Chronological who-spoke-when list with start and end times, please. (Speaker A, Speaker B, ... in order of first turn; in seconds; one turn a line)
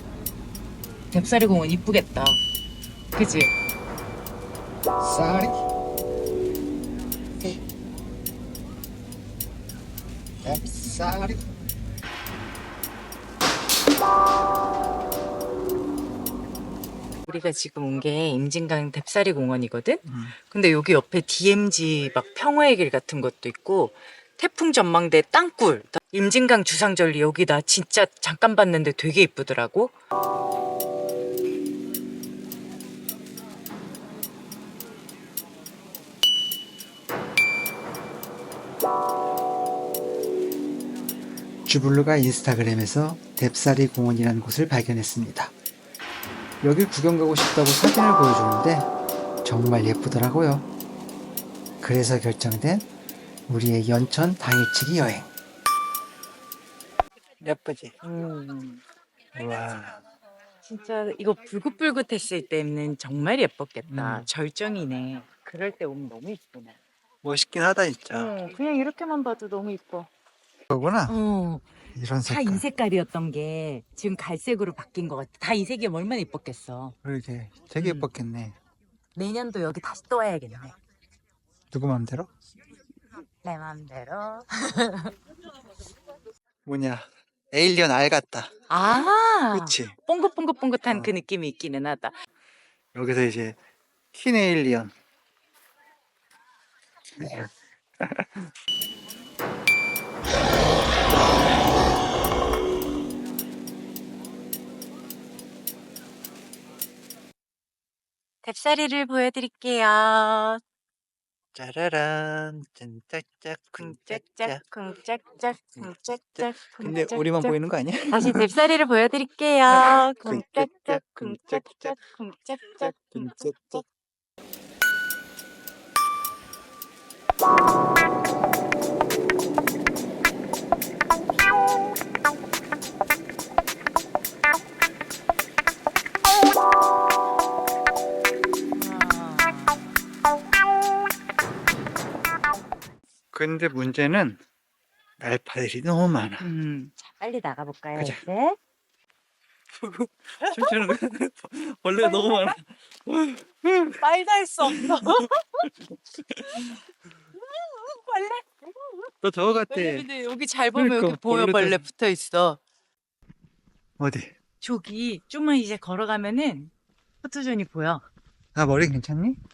Speaker A: 1.1-2.4
Speaker A: 3.1-3.5
Speaker B: 5.0-5.6
Speaker B: 10.4-11.4
Speaker A: 17.2-29.9
Speaker B: 20.0-20.4
Speaker B: 41.6-45.5
Speaker B: 46.6-48.9
Speaker B: 49.4-50.7
Speaker B: 51.8-52.9
Speaker B: 53.5-55.3
Speaker B: 57.4-57.9
Speaker A: 58.0-58.8
Speaker B: 59.3-60.0
Speaker A: 60.6-66.8
Speaker B: 63.9-64.3
Speaker B: 67.2-68.3
Speaker A: 68.1-70.1
Speaker B: 70.7-71.1
Speaker A: 71.1-71.7
Speaker B: 72.0-72.6
Speaker A: 72.2-76.9
Speaker B: 77.0-78.5
Speaker A: 77.8-78.1
Speaker A: 79.1-80.8
Speaker B: 81.7-82.3
Speaker A: 83.4-85.1
Speaker B: 86.6-88.5
Speaker A: 88.7-92.2
Speaker B: 89.5-89.9
Speaker B: 92.9-93.6
Speaker B: 94.1-94.9
Speaker B: 97.2-98.4
Speaker A: 108.4-110.6
Speaker B: 111.5-114.6
Speaker A: 113.8-117.5
Speaker B: 115.8-118.5
Speaker A: 118.1-123.8
Speaker B: 119.7-121.9
Speaker B: 122.8-123.8
Speaker A: 138.7-139.9
Speaker B: 143.3-144.4
Speaker B: 145.2-146.5
Speaker A: 146.4-148.6
Speaker B: 148.0-148.2
Speaker B: 149.8-154.0
Speaker A: 150.4-151.0
Speaker A: 152.0-152.6
Speaker A: 154.0-155.7
Speaker B: 154.7-155.2
Speaker B: 156.2-156.7
Speaker A: 157.4-159.1
Speaker B: 159.2-160.1
Speaker A: 159.7-162.6
Speaker B: 160.7-161.8
Speaker B: 164.0-164.3
Speaker A: 164.6-166.7
Speaker A: 167.2-168.0
Speaker B: 168.5-169.4